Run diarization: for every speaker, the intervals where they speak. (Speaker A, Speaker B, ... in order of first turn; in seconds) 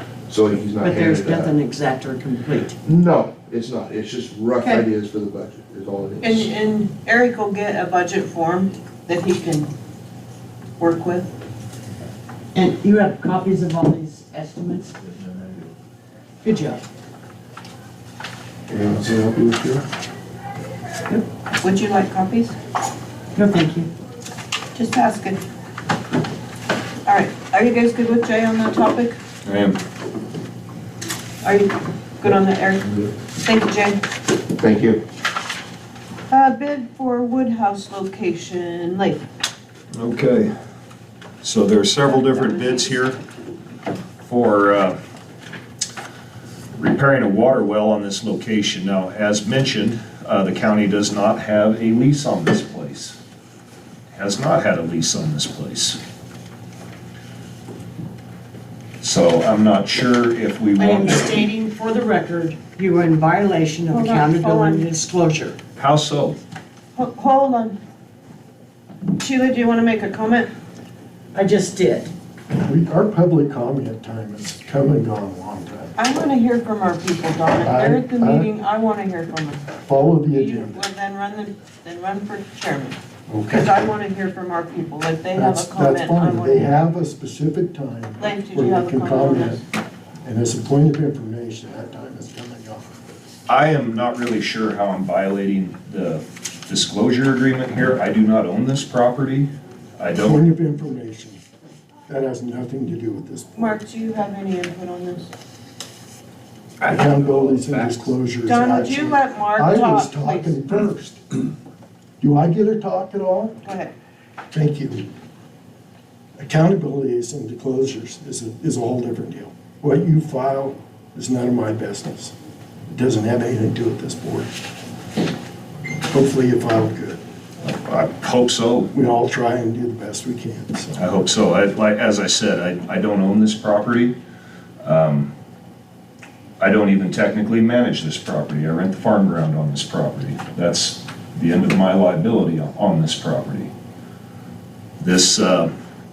Speaker A: 0.3-1.5, 2.8-6.5, 18.7-19.8, 34.5-35.0, 106.8-108.1
Speaker B: 0.8-2.8, 4.6-4.9, 12.5-14.9, 16.4-16.8, 23.3-23.9, 60.8-65.6, 71.3-72.1
Speaker C: 6.2-9.7, 10.8-11.3, 21.6-22.5, 24.7-25.4, 27.1-29.1, 31.4-34.0, 36.3-39.2, 42.1-42.9, 63.9-64.8, 66.9-67.8, 69.2-70.5, 76.0-79.7, 80.3-83.0, 83.5-86.7, 88.2-89.6, 103.5-105.3, 108.5-110.5, 113.6-113.9
Speaker D: 29.4-29.8, 39.9-40.5, 41.4-43.2, 44.2-45.0, 46.8-53.2, 54.1-56.0, 59.0-61.2, 65.8-66.4, 93.5-100.4, 127.6-128.9, 130.9-134.2, 134.8-135.3, 136.6-143.7, 145.0-145.7
Speaker E: 72.5-75.9, 77.6-78.5, 79.7-80.8, 83.3-83.7, 85.3-89.6, 90.2-93.0, 100.2-101.4, 102.1-103.8, 106.9-111.5, 112.2-113.6, 114.5-115.1, 116.4-122.3, 122.9-124.5, 126.1-127.2, 128.9-131.0